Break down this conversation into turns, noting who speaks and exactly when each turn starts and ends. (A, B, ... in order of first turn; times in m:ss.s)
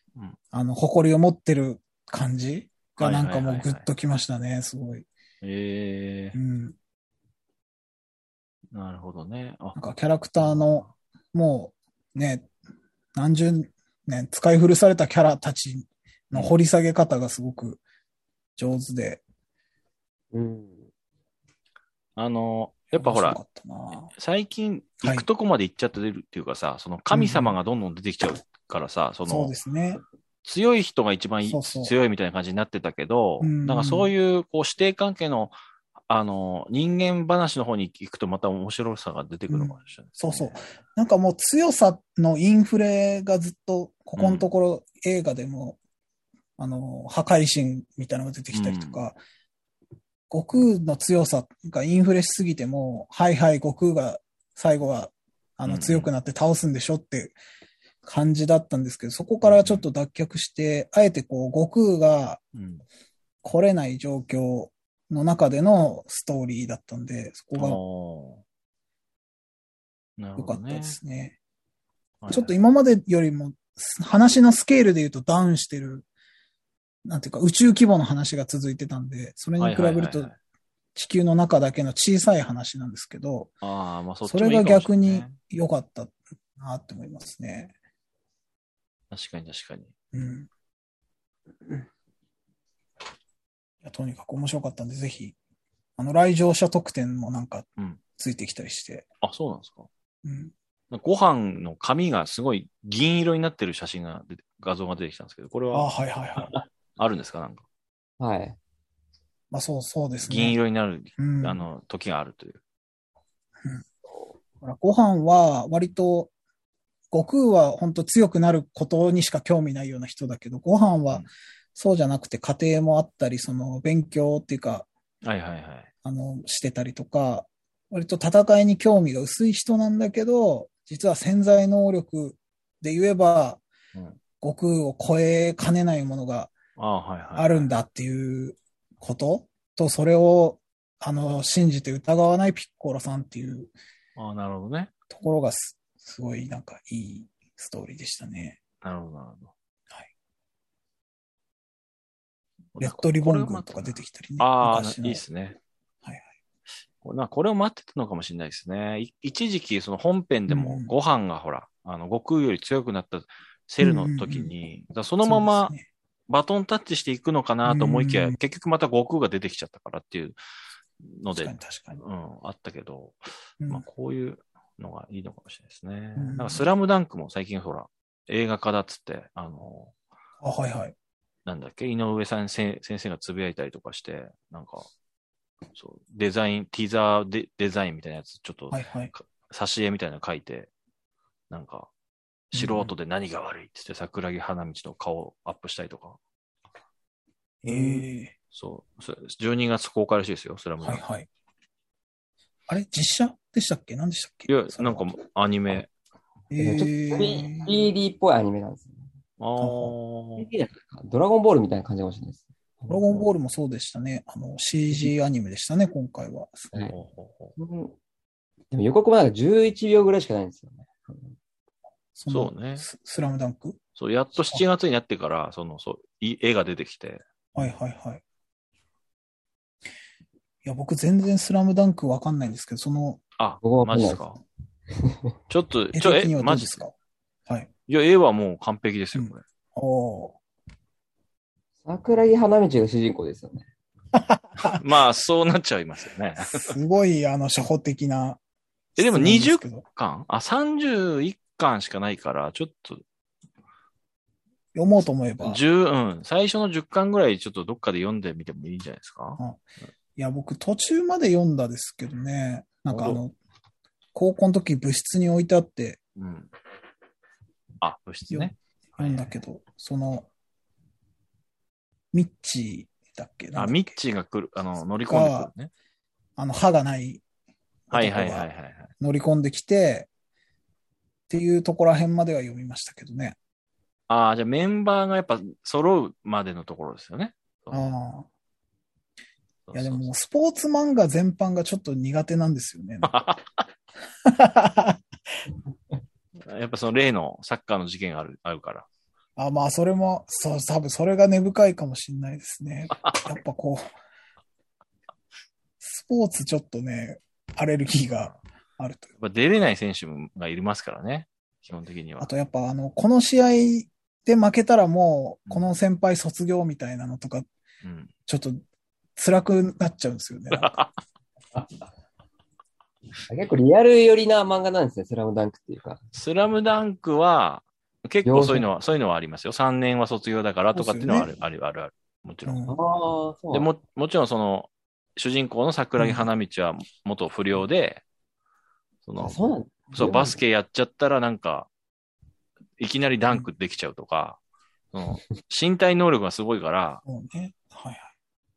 0:00.5-0:05.1 A
0:03.0-0:03.8 B
0:05.4-0:06.4 B
0:06.3-0:06.8 A
0:08.7-0:09.8 B
0:09.7-0:12.5 A
0:10.4-0:10.9 B
0:13.1-0:17.8 A
0:18.6-0:19.2 A
0:20.3-0:20.9 C
0:22.2-0:23.4 B
0:22.9-0:24.1 A
0:24.1-0:29.5 B
0:27.1-0:27.6 A
0:29.2-0:30.0 A
0:30.4-0:35.5 B
0:31.4-0:31.9 A
0:33.4-0:34.1 A
0:36.1-0:40.6 B
0:39.5-0:45.8 A
0:44.2-0:44.5 B
0:46.6-0:49.2 A
0:48.5-0:49.0 B
0:50.3-0:57.4 A
0:55.6-0:56.1 B
0:58.0-1:02.4 A
0:59.4-0:59.8 B
1:02.5-1:02.8 B
1:03.4-1:07.8 A
1:07.5-1:08.4 B
1:10.2-1:11.0 B
1:10.4-1:11.4 A
1:12.2-1:12.5 B
1:12.3-1:16.1 A
1:17.0-1:20.3 A
1:19.6-1:20.3 B
1:20.9-1:23.5 A
1:23.6-1:25.4 B
1:24.2-1:27.7 A
1:29.1-1:29.9 B
1:30.1-1:30.5 A
1:33.8-1:35.4 A
1:36.0-1:39.0 A
1:39.2-1:39.9 B
1:40.2-1:40.5 A
1:40.9-1:47.6 B
1:45.7-1:46.5 A
1:48.2-1:48.6 C
1:49.5-1:50.6 A
1:50.2-1:52.6 B
1:51.2-1:51.7 A
1:54.6-1:56.3 A
1:57.1-2:04.9 A
2:05.2-2:05.9 B
2:06.0-2:13.6 A
2:14.4-2:16.5 A
2:16.8-2:17.7 B
2:17.4-2:23.7 A
2:24.2-2:24.9 B
2:25.1-2:28.6 A
2:28.8-2:29.5 B
2:32.8-2:35.6 B
2:32.8-2:35.2 A
2:37.0-2:45.7 B
2:40.5-2:40.9 A
2:43.8-2:44.5 A
2:45.2-2:45.8 A
2:46.3-2:50.4 B
2:47.6-2:48.4 A
2:51.0-2:59.9 B
2:51.3-2:52.0 A
2:56.2-2:56.7 A
3:00.4-3:00.9 A
3:01.4-3:04.9 B
3:05.8-3:10.7 B
3:08.7-3:09.1 A
3:11.5-3:11.9 B
3:12.5-3:16.2 B
3:12.5-3:12.9 A
3:17.6-3:18.3 A
3:17.7-3:21.0 B
3:20.8-3:21.3 A
3:22.7-3:25.1 A
3:24.5-3:25.9 B
3:26.5-3:27.7 A
3:26.6-3:29.0 C
3:29.4-3:30.5 B
3:29.6-3:29.9 A
3:30.4-3:33.2 C
3:32.9-3:36.7 A
3:36.8-3:37.5 B
3:37.6-3:38.0 C
3:38.7-3:41.3 C
3:42.2-3:43.8 A
3:42.3-3:42.8 B
3:44.0-3:47.2 B
3:44.4-3:44.6 A
3:47.6-3:48.2 A
3:50.6-3:53.2 A
3:53.4-3:54.4 B
3:53.6-3:54.2 C
3:55.0-3:55.3 C
3:55.5-3:56.8 B
3:55.9-3:56.9 A
3:57.9-3:59.4 B
3:59.1-4:00.4 A
4:01.8-4:03.6 C
4:04.2-4:04.8 A
4:04.6-4:06.8 B
4:06.5-4:08.4 A
4:09.0-4:09.8 A
4:09.0-4:13.0 B
4:14.7-4:15.6 A
4:15.4-4:19.4 B
4:20.2-4:23.3 A
4:22.9-4:23.2 B
4:24.1-4:26.0 A
4:26.2-4:26.5 B
4:27.8-4:29.3 B
4:28.3-4:30.3 A
4:32.1-4:33.9 A
4:33.6-4:35.7 B
4:35.0-4:35.5 A
4:36.4-4:37.2 A
4:37.9-4:38.5 A
4:37.9-4:38.9 B
4:39.0-4:40.1 A
4:41.3-4:43.4 A
4:44.1-4:47.9 B
4:47.7-4:48.3 A
4:49.7-4:50.1 B
4:49.7-4:53.2 A
4:53.0-4:53.6 B
4:54.2-4:55.0 A
4:56.4-4:58.8 B
4:59.4-5:03.8 A
5:03.0-5:03.2 B
5:05.8-5:09.1 A
5:09.2-5:12.3 B
5:12.2-5:17.5 A
5:17.8-5:18.1 B
5:18.3-5:18.6 A
5:19.2-5:20.8 A
5:20.5-5:20.9 B
5:23.3-5:26.0 C
5:26.1-5:32.6 B
5:28.2-5:28.6 C
5:30.7-5:31.3 A
5:32.4-5:32.7 A
5:32.7-5:33.7 C
5:33.5-5:38.0 B
5:36.0-5:36.3 A
5:39.0-5:39.4 B
5:39.2-5:40.4 C
5:39.9-5:41.7 B
5:42.8-5:44.4 B
5:44.9-5:47.0 B
5:47.0-5:48.1 A